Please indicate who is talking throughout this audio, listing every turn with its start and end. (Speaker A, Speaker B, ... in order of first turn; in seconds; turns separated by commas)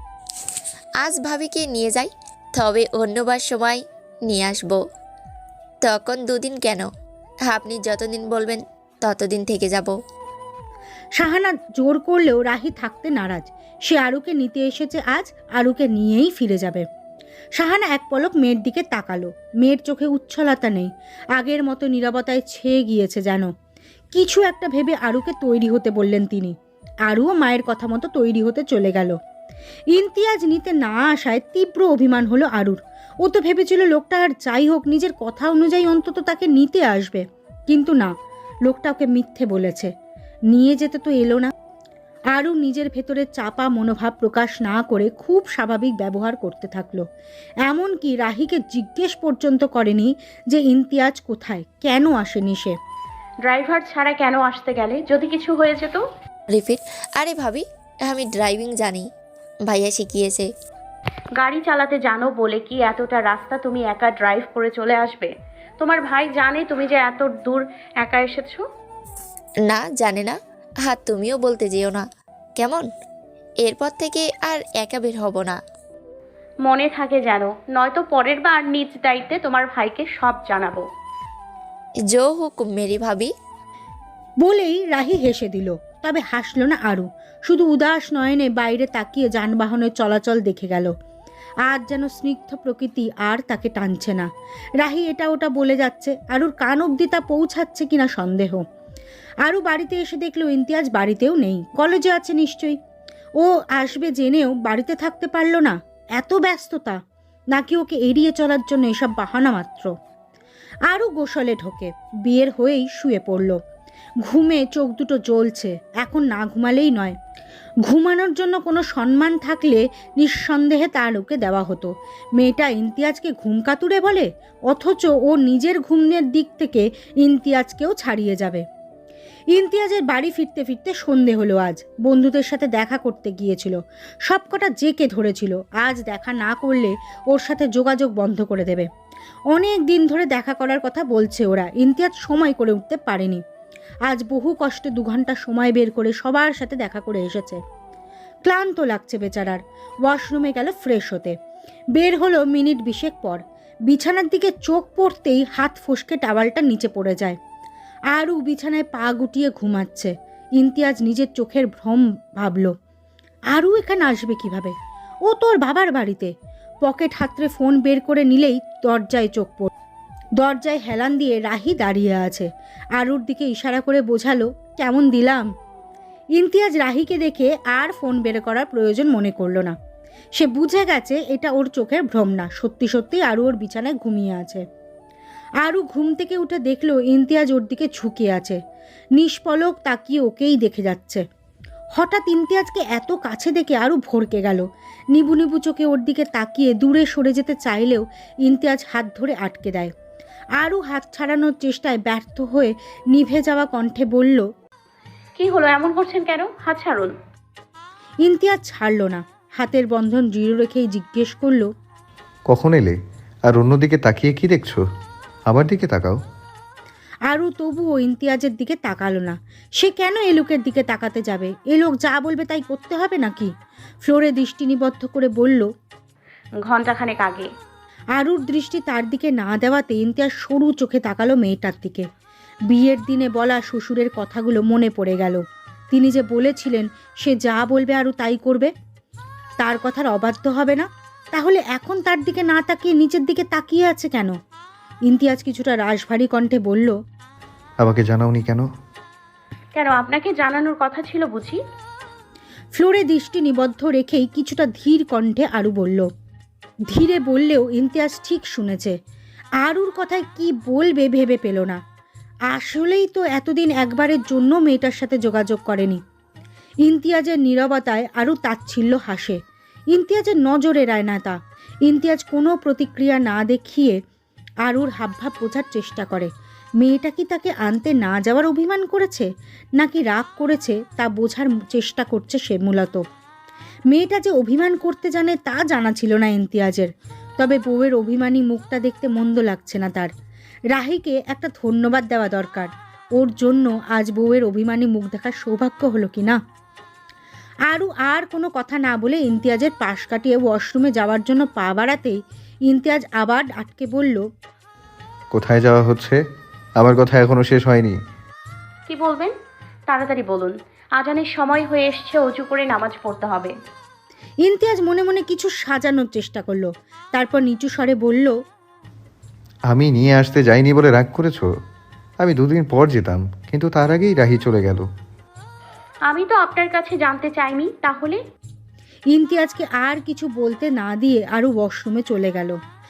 Speaker A: 1.0-4.8, Speaker A: 5.8-6.9, Speaker A: 7.5-9.9, Speaker B: 11.2-16.9, Speaker B: 17.6-23.5, Speaker B: 24.1-26.5, Speaker B: 27.1-29.1, Speaker B: 29.9-38.1, Speaker B: 38.6-39.9, Speaker B: 40.5-41.5, Speaker B: 42.3-47.0, Speaker B: 47.6-52.8, Speaker C: 53.4-56.0, Speaker A: 56.5-59.1, Speaker A: 59.7-60.5, Speaker C: 61.4-68.6, Speaker A: 69.6-72.0, Speaker A: 72.5-72.9, Speaker A: 73.6-75.6, Speaker C: 76.7-80.8, Speaker A: 82.1-83.3, Speaker B: 84.4-90.9, Speaker B: 91.6-94.3, Speaker B: 94.8-98.6, Speaker B: 99.4-102.8, Speaker B: 103.4-107.0, Speaker B: 107.5-109.9, Speaker B: 110.9-113.6, Speaker B: 114.2-117.2, Speaker B: 117.8-128.6, Speaker B: 129.5-138.9, Speaker B: 139.5-143.4, Speaker B: 144.1-147.6, Speaker B: 148.4-151.3, Speaker B: 151.9-157.4, Speaker B: 158.1-162.7, Speaker B: 163.5-164.7, Speaker B: 165.3-166.3, Speaker B: 166.8-169.7, Speaker B: 170.4-175.5, Speaker B: 176.4-179.8, Speaker B: 180.4-184.6, Speaker B: 185.6-188.6, Speaker B: 189.2-191.2, Speaker B: 192.0-199.9, Speaker B: 200.6-204.4, Speaker C: 205.4-207.1, Speaker B: 208.2-211.7, Speaker D: 212.5-212.9, Speaker D: 213.5-214.8, Speaker D: 215.5-216.2, Speaker B: 217.3-223.5, Speaker B: 224.0-225.7, Speaker C: 226.6-227.5, Speaker B: 228.2-232.1, Speaker B: 232.7-235.4, Speaker B: 235.9-238.7, Speaker B: 239.6-244.3, Speaker B: 245.1-246.9, Speaker D: 247.8-248.7, Speaker C: 249.8-251.6, Speaker B: 252.8-256.1, Speaker B: 256.9-258.9, Speaker B: 259.6-261.8, Speaker B: 262.5-266.0, Speaker B: 266.9-269.4, Speaker B: 269.9-274.0, Speaker B: 274.6-276.3, Speaker B: 276.8-279.3, Speaker B: 279.8-283.0, Speaker B: 283.9-290.1, Speaker B: 290.7-296.4, Speaker B: 297.7-304.2, Speaker D: 305.3-306.2, Speaker D: 306.8-307.9, Speaker C: 308.9-309.3, Speaker C: 309.9-313.5, Speaker B: 314.4-318.3, Speaker D: 319.7-321.5, Speaker D: 322.2-324.8, Speaker C: 326.1-328.2, Speaker B: 329.1-332.6